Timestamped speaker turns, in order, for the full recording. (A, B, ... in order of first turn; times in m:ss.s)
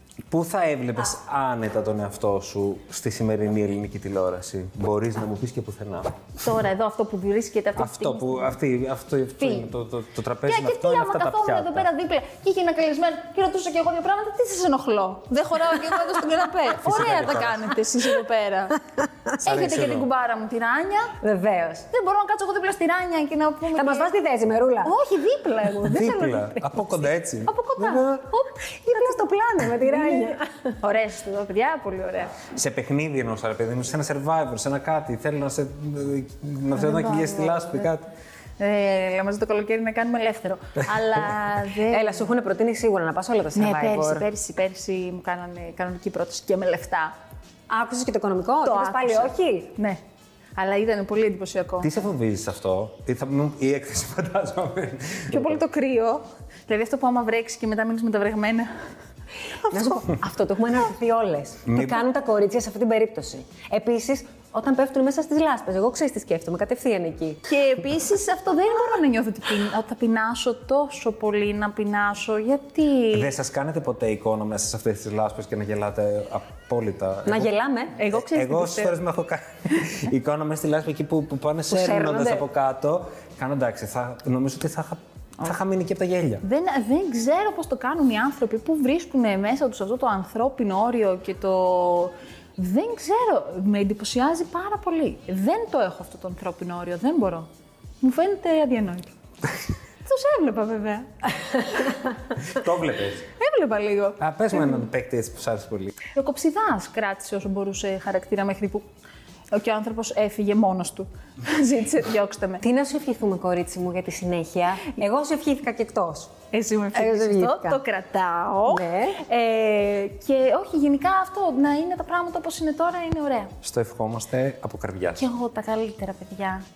0:00.3-0:06.2 A
0:06.4-0:08.6 B
0:07.8-0:11.9 A
0:09.4-0:09.7 B
0:10.4-0:18.8 B
0:16.8-0:17.7 A
0:19.4-0:21.1 B
0:19.4-0:20.1 A
0:21.2-0:21.8 C
0:21.9-0:24.1 B
0:23.7-0:24.9 C
0:24.8-0:26.4 B
0:25.8-0:28.2 A
0:26.0-0:27.0 C
0:27.4-0:29.2 B
0:28.9-0:30.5 C
0:29.8-0:32.4 B
0:32.5-0:38.1 A
0:36.7-0:37.9 B
0:38.6-0:42.3 B
0:41.9-0:44.3 C
0:43.5-0:47.1 B
0:47.7-0:49.7 C
0:48.6-0:50.0 B
0:50.6-0:51.9 B
0:51.8-0:55.6 A
0:55.3-0:58.7 B
0:59.6-1:00.0 B
0:59.7-1:07.4 C
1:01.7-1:02.0 A
1:07.4-1:13.3 B
1:13.1-1:17.5 A
1:17.2-1:18.0 C
1:17.9-1:19.0 B
1:18.1-1:26.4 A
1:21.7-1:22.4 C
1:26.4-1:37.5 B
1:38.0-1:39.1 B
1:40.0-1:42.0 B
1:42.5-1:43.2 A
1:43.4-1:44.8 B
1:44.2-1:46.0 A
1:46.1-1:48.9 B
1:49.5-1:52.6 B
1:52.6-1:56.3 C
1:56.5-2:03.5 B
1:56.9-1:57.8 C
1:58.7-1:59.2 C
2:03.6-2:05.3 A
2:05.1-2:06.6 B